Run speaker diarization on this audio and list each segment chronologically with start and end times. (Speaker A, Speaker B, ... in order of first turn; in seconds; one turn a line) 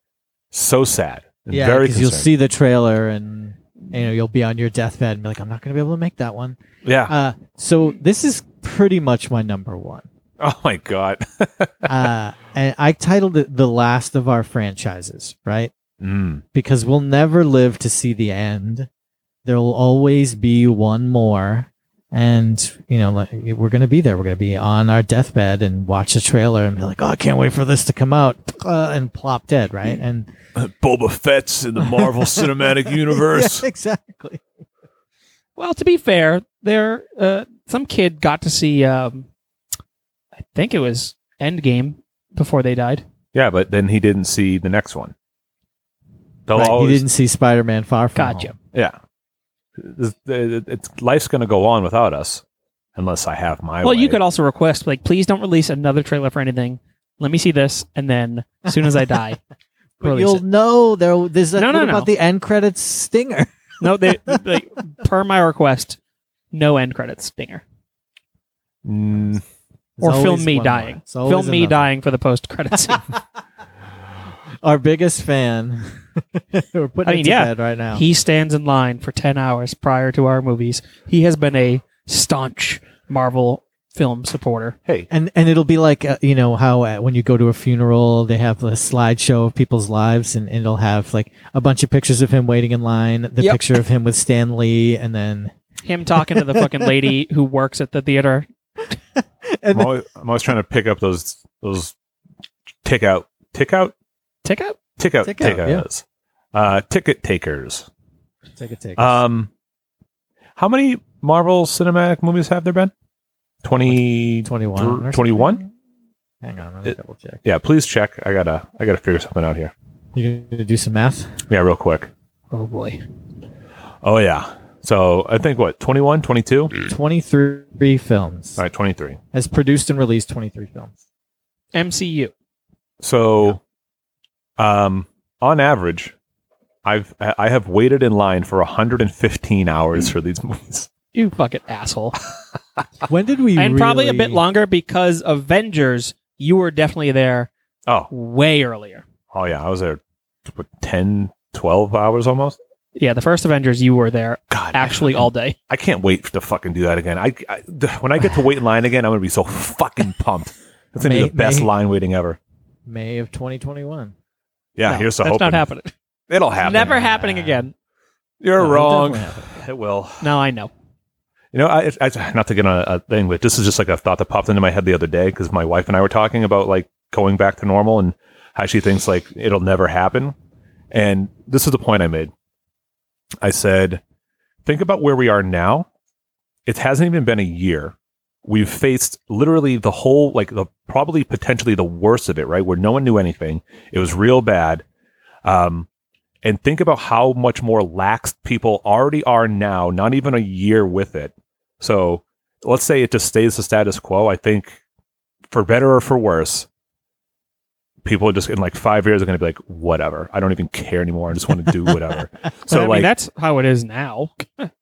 Speaker A: 0.5-2.3
Speaker B: 1.5-10.1
Speaker A: 6.8-7.1
Speaker A: 10.4-11.9
Speaker B: 11.9-15.7
Speaker A: 16.0-16.4
Speaker B: 16.5-18.9
Speaker B: 19.4-30.3
Speaker A: 30.6-33.7
Speaker B: 31.8-34.4
Speaker C: 35.6-39.3
Speaker C: 40.5-43.0
Speaker A: 43.3-45.1
Speaker A: 46.5-47.0
Speaker B: 46.5-48.5
Speaker C: 48.2-48.5
Speaker A: 49.8-52.4
Speaker A: 53.0-54.2
Speaker C: 53.8-59.4
Speaker B: 60.0-64.4
Speaker C: 60.0-60.4
Speaker C: 61.6-62.1
Speaker C: 63.8-66.0
Speaker C: 66.5-67.6
Speaker A: 68.8-69.4
Speaker B: 70.0-71.9
Speaker C: 70.0-73.1
Speaker B: 74.6-78.0
Speaker C: 77.1-84.8
Speaker B: 85.1-95.5
Speaker C: 95.8-98.5
Speaker B: 96.2-96.9
Speaker B: 99.4-100.0
Speaker A: 99.7-101.9
Speaker A: 102.8-103.9
Speaker C: 104.5-104.8
Speaker A: 105.0-107.9
Speaker B: 105.2-105.9
Speaker B: 108.6-109.2
Speaker A: 109.0-109.5
Speaker A: 110.6-112.9
Speaker A: 113.6-115.6
Speaker B: 113.9-115.7
Speaker B: 116.4-117.4
Speaker A: 116.9-119.7
Speaker B: 120.1-121.4
Speaker A: 121.5-122.1
Speaker C: 122.5-123.0
Speaker A: 124.0-126.7
Speaker B: 126.9-128.6
Speaker A: 128.6-129.2
Speaker B: 129.3-131.0
Speaker C: 131.7-132.3
Speaker A: 133.0-133.6
Speaker A: 134.6-136.1
Speaker A: 136.8-140.9
Speaker C: 141.1-142.2
Speaker B: 143.1-144.4
Speaker C: 143.6-147.5
Speaker C: 148.1-149.0
Speaker A: 149.3-152.6
Speaker C: 153.0-155.6
Speaker A: 154.5-162.4
Speaker B: 161.0-161.7
Speaker B: 162.9-164.1
Speaker A: 164.8-165.7
Speaker C: 164.8-165.9
Speaker A: 166.3-167.2
Speaker C: 166.6-167.7
Speaker B: 166.8-167.6
Speaker A: 168.4-170.3
Speaker B: 168.6-169.5
Speaker C: 170.2-170.7
Speaker A: 171.5-180.3
Speaker A: 180.9-182.3
Speaker A: 183.4-184.0
Speaker A: 184.6-185.9
Speaker A: 186.7-187.9
Speaker A: 188.4-194.8
Speaker A: 195.4-195.9
Speaker A: 196.4-204.8
Speaker A: 205.5-206.7
Speaker A: 208.0-213.1
Speaker C: 212.7-214.7